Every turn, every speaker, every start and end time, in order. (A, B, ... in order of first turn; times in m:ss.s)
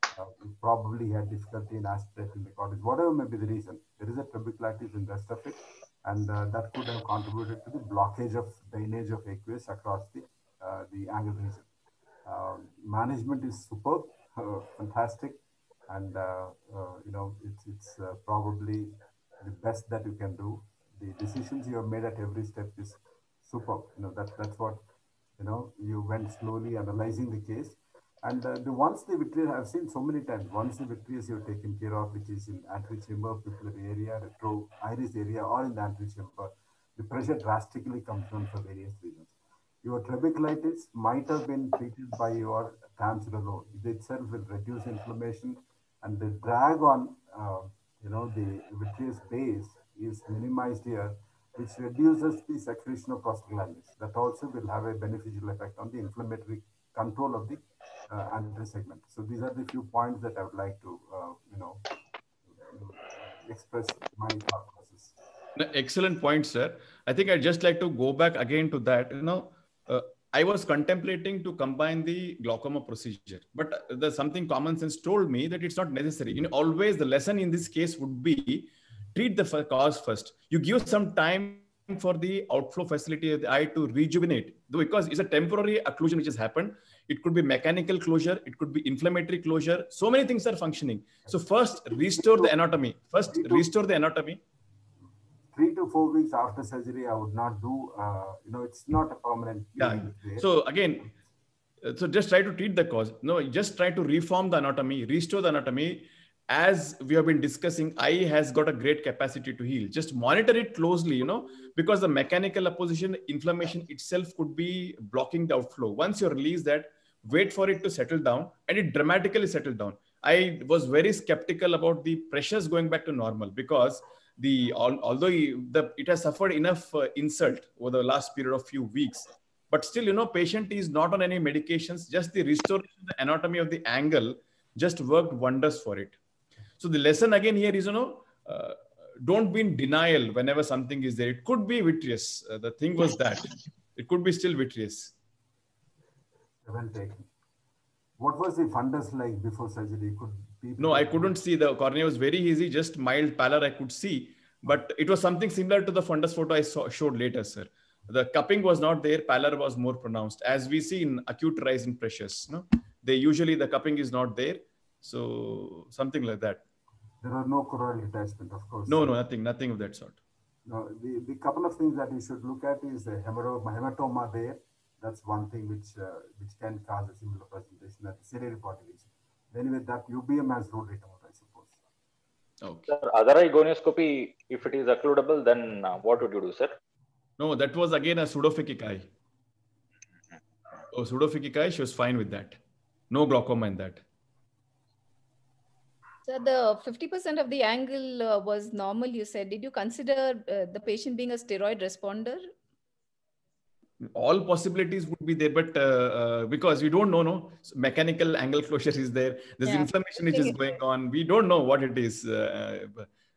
0:00.1-0:11.7 A
0:12.2-0:24.8 A
0:25.4-1:01.8 A
1:02.5-1:05.2 A
1:05.6-1:34.4 B
1:31.9-1:32.5 A
1:33.3-1:33.7 A
1:35.5-1:40.5 A
1:39.8-1:41.1 B
1:41.8-2:16.2 B
2:16.8-2:25.1 B
2:26.6-2:27.3 A
2:28.2-2:31.4 A
2:30.8-2:46.6 B
2:47.2-2:49.1 A
2:48.9-2:50.2 B
2:50.7-3:01.8 A
3:02.6-3:02.9 B
3:02.9-3:06.8 C
3:07.4-3:09.1 B
3:10.9-3:12.6 B
3:13.1-3:14.0 B
3:16.2-3:22.5 D
3:24.0-3:33.1 B
3:29.6-3:30.6 D